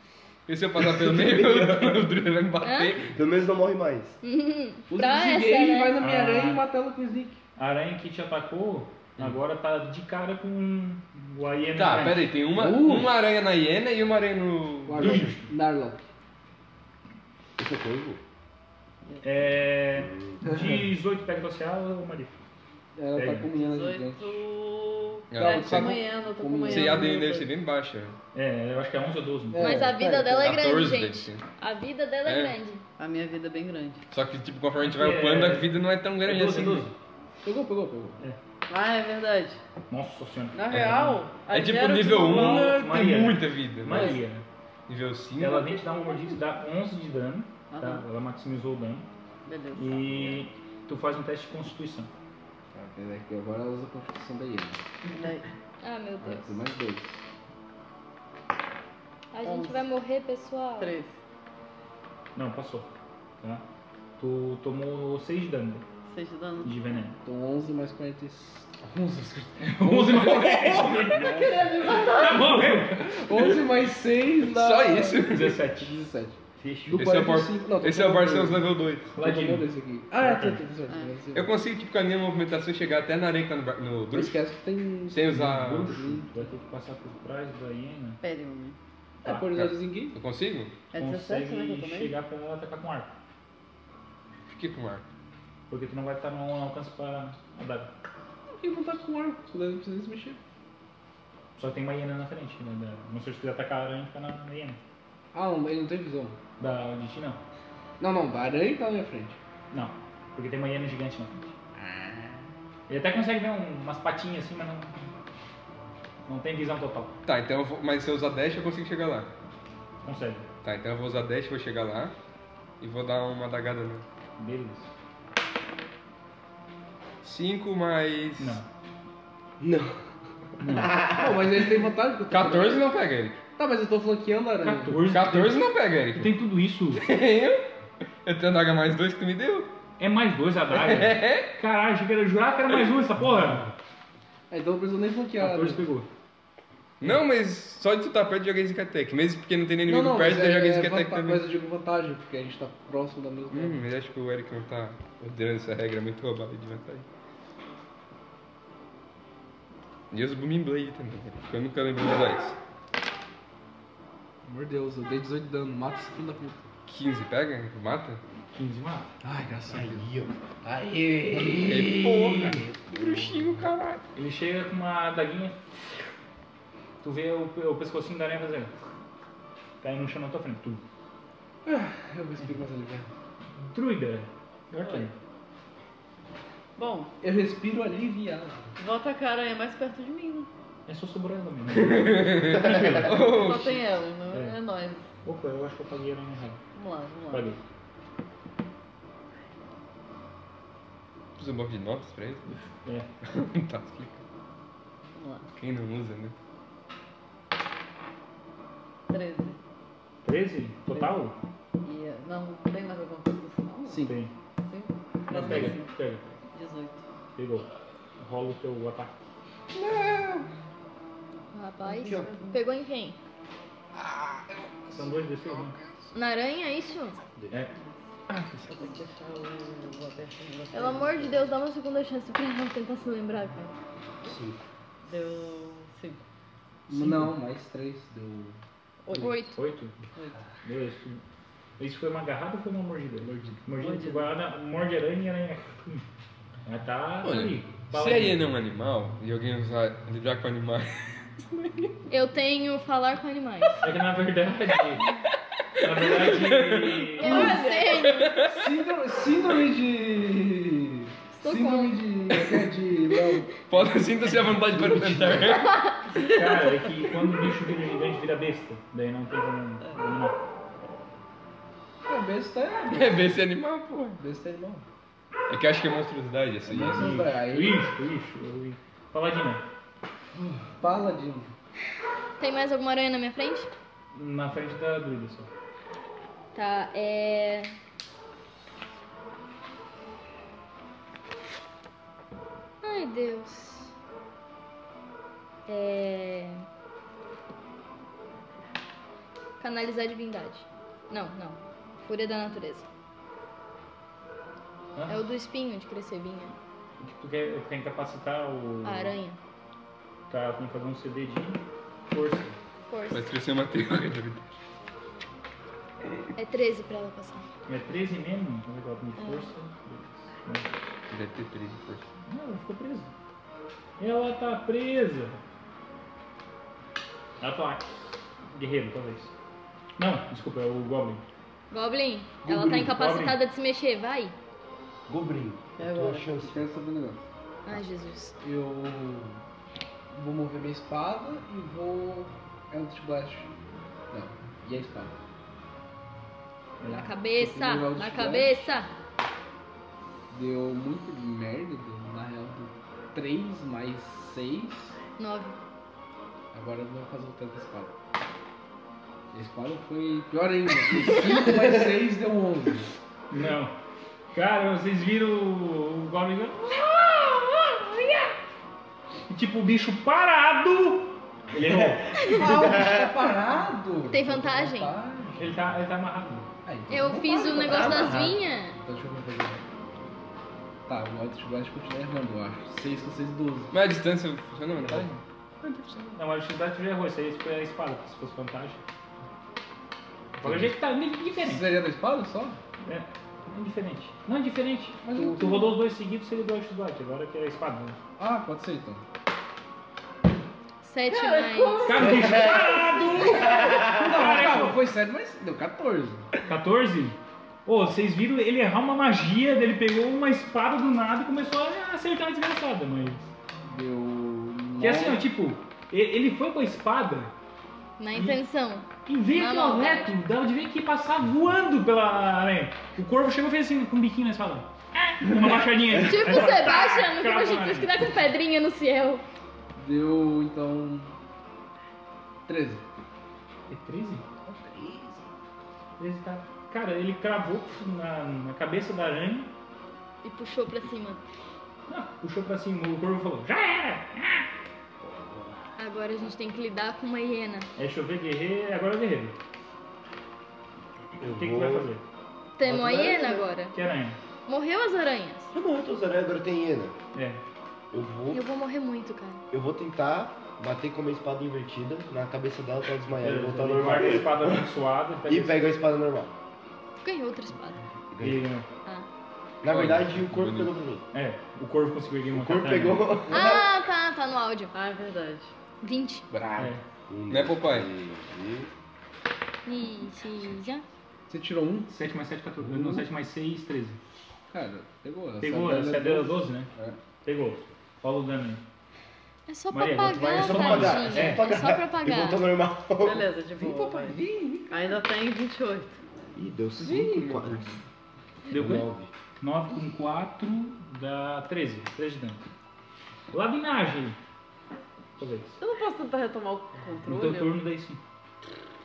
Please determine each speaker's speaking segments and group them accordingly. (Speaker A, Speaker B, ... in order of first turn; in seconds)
Speaker A: 0.5-3.2, 11.8-15.3, 25.3-26.0, 26.7-28.2, 30.4-31.4, 32.2-32.6, 34.1-36.9, 40.7-44.2, 44.9-45.9, 74.4-75.6, 76.9-79.2, 81.3-84.4, 85.1-85.9, 89.5-90.7, 94.5-95.0, 117.2-119.3, 120.6-122.1, 122.8-124.0, 127.2-128.6, 132.3-133.4, 135.1-136.4, 136.9-137.7, 138.2-139.7, 140.7-141.6, 147.0-151.5, 153.5-157.1, 160.1-162.6, 166.9-168.2, 171.6-174.0, 191.7-193.8, 201.4-202.5, 203.2-204.2, 205.6-206.3, 219.8-220.4, 228.3-228.7, 247.2-251.9, 255.8-258.7, 263.7-265.8, 272.9-274.2, 275.5-277.2, 313.1-314.5, 321.1-322.1, 383.7-386.2, 469.6-470.7, 477.3-477.9, 496.8-497.8
Speaker B: 1.0-2.0, 3.1-4.2, 17.6-18.2, 20.0-20.4, 129.6-130.0, 130.6-131.5, 169.7-170.3, 172.9-173.6, 234.2-234.6, 264.6-265.6, 332.5-332.7, 335.1-336.7, 371.6-373.3, 403.5-404.1, 451.2-451.9, 455.5-456.9, 457.9-458.4, 459.5-464.7, 465.2-466.3, 468.1-468.5, 469.6-471.0, 472.3-473.7, 477.1-478.7, 490.2-493.2, 496.4-497.8, 498.5-499.1
Speaker C: 2.6-3.0, 4.2-6.0, 29.6-32.8, 55.8-56.6, 59.3-61.0, 221.5-223.2, 226.1-227.2, 230.7-233.7, 239.2-239.6, 252.1-253.8, 257.2-258.3, 261.3-262.2, 265.7-266.0, 282.4-283.7, 286.6-287.8, 292.8-293.9, 295.7-296.6, 299.6-302.9, 305.1-306.6, 308.8-309.4, 312.9-313.3, 316.4-317.5, 319.2-319.5, 331.7-334.3, 337.6-338.4, 346.9-348.9, 355.2-355.6, 372.2-372.5, 374.1-374.9, 376.9-378.8, 400.8-402.2, 418.0-420.1, 425.9-429.2, 440.2-441.2, 445.8-447.7, 452.6-453.8, 454.5-455.5, 458.3-459.4, 467.0-467.8, 473.3-474.7, 475.8-476.2, 479.6-480.9, 489.5-492.5
Speaker D: 4.9-7.4, 12.5-13.2, 14.9-16.0, 20.4-20.8, 23.0-24.4, 25.4-27.2, 29.5-30.6, 37.4-38.2, 52.7-54.9, 56.2-57.2, 67.2-81.5, 84.1-86.5, 89.2-90.2, 98.5-100.4, 105.3-106.4, 108.0-109.4, 111.8-112.5, 131.1-133.0, 133.6-135.1, 144.5-145.8, 149.8-153.9, 164.4-166.7, 169.2-170.1, 170.6-172.7, 181.7-183.1, 187.2-188.7, 213.9-214.2, 236.9-238.6, 243.2-243.6, 257.3-257.8, 258.4-263.6, 272.1-273.4, 274.2-274.9, 276.6-277.9, 280.4-281.5, 336.3-337.2, 338.4-339.4, 340.1-343.5, 344.1-345.1, 346.8-348.6, 350.3-355.0, 356.5-357.9, 359.3-362.9, 372.3-375.6, 376.6-379.6, 380.9-383.7, 390.4-390.8, 391.4-392.6, 395.0-395.8, 398.2-399.0, 401.1-406.3, 413.7-415.3, 429.8-431.1, 432.5-432.9, 434.4-435.3, 445.0-445.5, 452.7-453.5, 476.3-476.8, 481.3-481.9, 482.6-483.1, 484.5-487.0, 493.5-495.0
Speaker E: 6.0-6.7, 7.6-12.3, 15.0-15.5, 19.2-22.3, 23.1-23.5, 28.3-29.8, 34.8-37.0, 39.9-41.2, 42.2-44.5, 45.4-49.1, 49.7-52.1, 62.4-62.9, 64.2-65.8, 66.6-67.2, 69.6-71.4, 72.0-73.1, 75.3-76.0, 76.6-77.0, 79.2-80.6, 85.3-88.2, 91.0-93.1, 95.7-97.9, 101.6-104.8, 106.6-107.4, 109.7-111.5, 112.9-114.9, 116.3-117.1, 120.0-120.5, 124.4-124.9, 128.4-128.7, 130.6-131.0, 134.6-137.1, 140.0-143.7, 145.4-146.1, 168.5-169.1, 174.2-175.6, 177.0-178.7, 179.8-180.8, 183.7-185.1, 190.9-193.3, 194.3-194.6, 195.2-196.6, 197.3-197.6, 202.5-203.1, 210.2-211.3, 214.1-214.3, 215.3-216.3, 217.4-217.7, 218.2-219.1, 224.9-225.8, 236.9-237.3, 239.5-239.9, 240.6-241.2, 241.8-246.1, 246.7-248.4, 253.8-255.1, 255.8-257.5, 266.3-270.4, 276.9-279.6, 284.1-285.5, 307.0-309.2, 310.3-312.6, 317.7-320.8, 322.3-323.1, 324.0-325.4, 327.4-329.3, 330.0-331.2, 332.5-333.4, 363.3-363.7, 364.3-368.4, 369.3-372.4, 375.4-376.5, 377.9-378.3, 384.8-385.2, 386.2-388.8, 390.4-391.7, 392.8-398.0, 401.9-404.8, 406.5-413.3, 414.8-417.3, 418.1-418.4, 419.1-428.1, 433.7-434.2, 436.0-439.5, 441.9-444.5, 447.8-449.4, 451.2-452.0, 453.7-454.2, 457.1-457.4, 463.2-465.8, 468.2-468.7, 471.1-473.2, 481.9-484.0, 485.4-486.7, 487.2-488.6, 489.7-491.6, 498.5-502.4, 503.3-504.2, 505.2-505.6, 507.1-508.0
Speaker F: 23.6-27.5, 33.0-34.0, 38.7-39.6, 40.5-42.8, 47.7-48.0, 49.5-50.5, 55.1-55.5, 59.4-59.8, 60.8-61.1, 66.1-66.7, 71.2-72.5, 80.9-81.1, 88.2-88.8, 90.9-92.1, 186.8-187.1, 188.8-190.5, 193.2-195.0, 196.7-197.5, 205.2-205.5, 209.1-209.6, 211.8-214.1, 214.7-215.9, 216.5-217.0, 221.8-222.6, 228.7-231.5, 235.0-236.2, 239.1-239.5, 243.8-244.3, 257.4-257.8, 335.8-336.3, 474.7-475.5, 493.0-496.0, 505.6-507.6